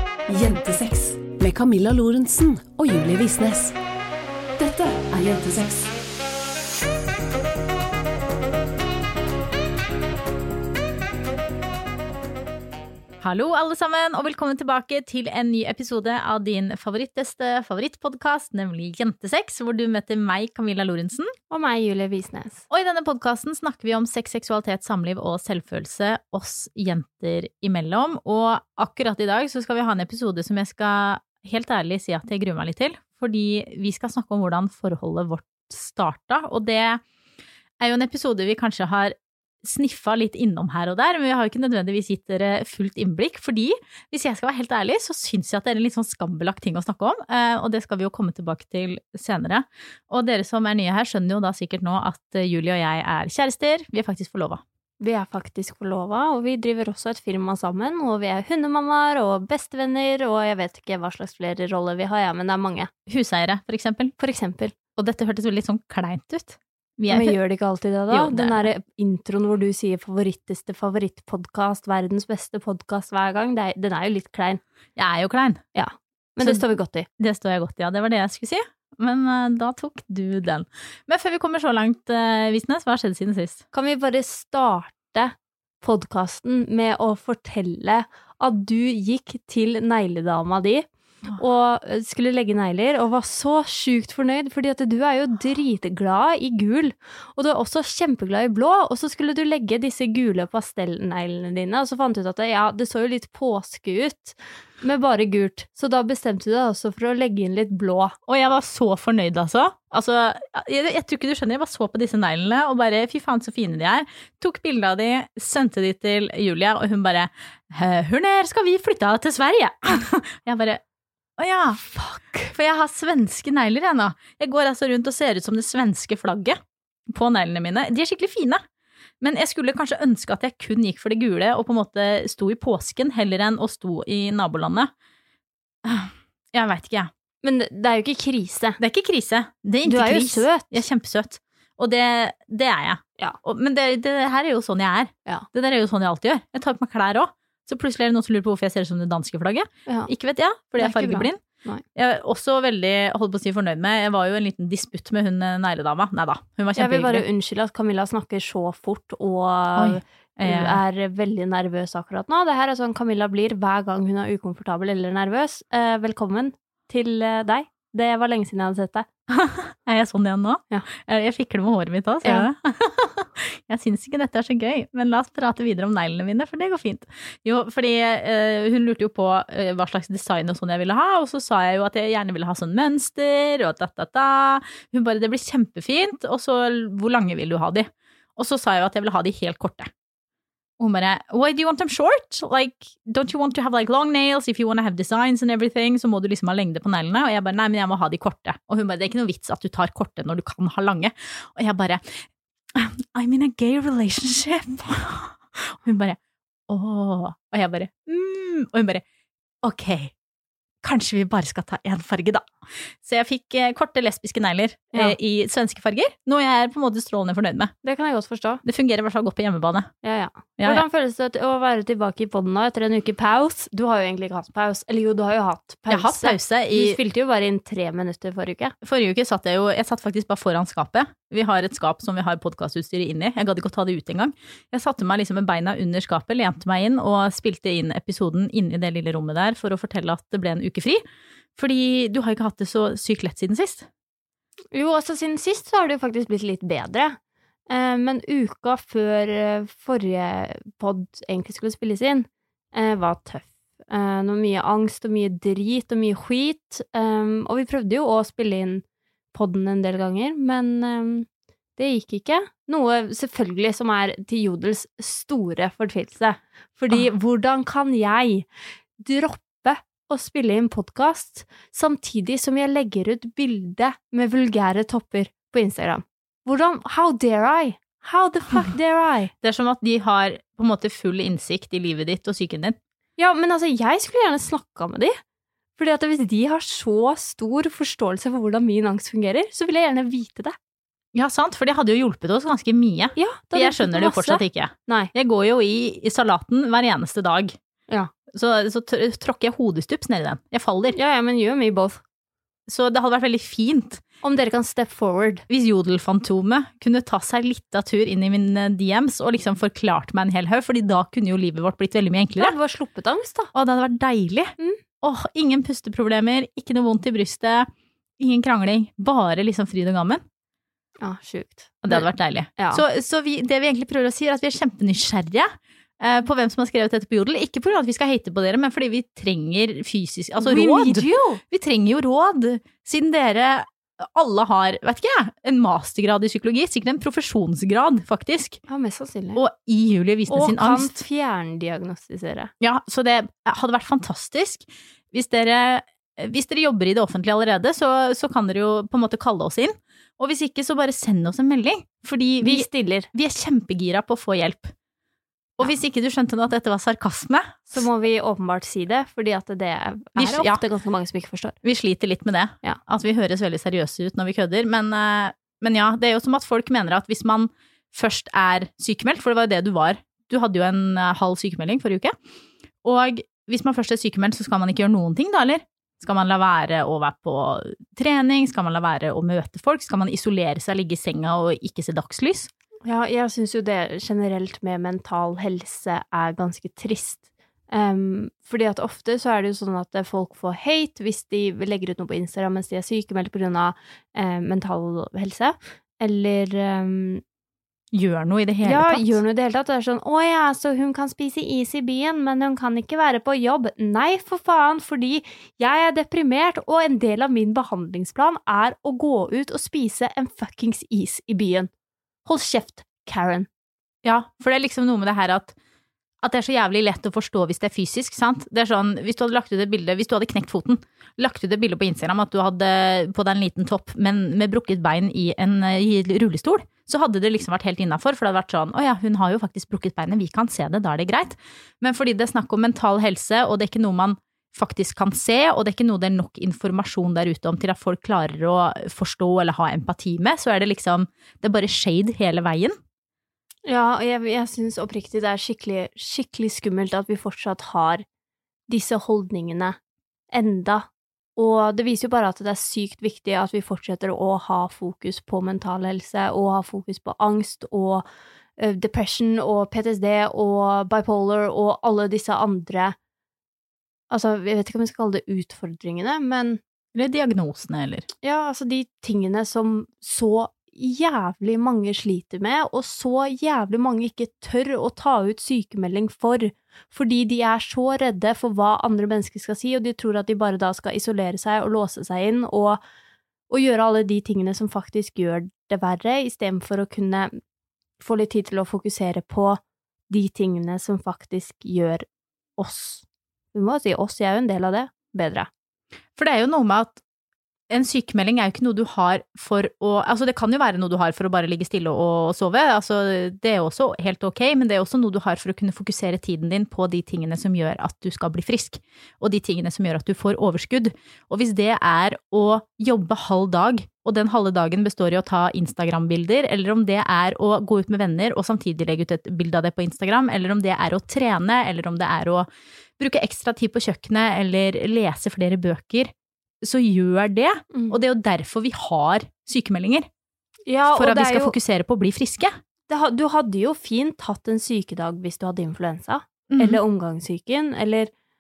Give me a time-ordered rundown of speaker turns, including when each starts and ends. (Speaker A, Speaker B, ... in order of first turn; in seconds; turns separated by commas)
Speaker A: 0.3-3.8, Speaker A: 4.6-5.9, Speaker B: 13.2-21.3, Speaker C: 21.5-22.6, Speaker B: 22.7-37.0, Speaker B: 37.8-54.6, Speaker C: 55.0-62.9, Speaker B: 63.1-64.1, Speaker C: 64.2-64.8, Speaker B: 65.0-67.3, Speaker C: 67.1-74.6, Speaker B: 68.1-68.7, Speaker B: 75.0-75.7, Speaker C: 75.8-77.1, Speaker B: 77.2-83.6, Speaker C: 83.7-108.2, Speaker B: 108.3-120.8, Speaker B: 121.4-121.8, Speaker C: 121.8-122.5, Speaker B: 122.5-128.6, Speaker B: 129.2-134.9, Speaker B: 135.8-137.1, Speaker C: 137.4-138.8, Speaker B: 138.8-151.4, Speaker C: 139.8-140.8, Speaker C: 150.8-151.8, Speaker B: 151.9-157.2, Speaker C: 156.8-169.1, Speaker B: 159.8-160.8, Speaker B: 169.3-189.9, Speaker B: 190.8-209.0, Speaker B: 209.6-210.1, Speaker B: 210.8-212.5, Speaker B: 213.0-217.7, Speaker C: 217.8-218.6, Speaker B: 218.6-219.9, Speaker C: 220.0-228.8, Speaker B: 220.6-220.8, Speaker B: 225.9-227.0, Speaker B: 228.8-241.0, Speaker B: 241.6-243.9, Speaker C: 244.7-247.2, Speaker C: 247.7-279.3, Speaker B: 279.4-282.8, Speaker C: 283.2-285.1, Speaker C: 285.8-290.6, Speaker B: 291.1-297.6, Speaker C: 293.1-295.1, Speaker B: 298.3-300.9, Speaker C: 300.9-302.0, Speaker B: 302.7-304.0, Speaker C: 304.2-305.4, Speaker B: 305.5-312.5, Speaker C: 312.4-313.5, Speaker B: 313.5-320.2, Speaker C: 321.0-322.1, Speaker B: 321.8-338.6, Speaker C: 322.6-322.8, Speaker C: 330.4-331.4, Speaker C: 338.7-339.4, Speaker B: 339.3-341.0, Speaker C: 340.3-342.5, Speaker B: 342.6-354.7, Speaker C: 352.4-353.1, Speaker B: 355.6-357.8, Speaker C: 357.7-361.6, Speaker B: 360.1-360.6, Speaker B: 361.6-372.1, Speaker B: 372.8-382.5, Speaker C: 382.9-397.2, Speaker B: 397.9-399.2, Speaker C: 398.6-411.7, Speaker C: 412.2-413.5, Speaker B: 414.0-415.5, Speaker B: 416.2-442.8, Speaker C: 443.6-448.1, Speaker C: 448.7-449.8, Speaker C: 450.3-458.1, Speaker C: 458.6-462.9, Speaker C: 464.1-466.6, Speaker B: 466.9-468.1, Speaker C: 468.2-482.8, Speaker C: 483.5-487.3, Speaker C: 488.0-492.1, Speaker C: 492.6-495.5, Speaker B: 496.2-497.0, Speaker B: 497.7-522.5, Speaker B: 523.0-530.1, Speaker C: 527.7-528.0, Speaker C: 530.7-531.6, Speaker B: 530.9-532.5, Speaker C: 532.9-538.1, Speaker B: 536.5-536.8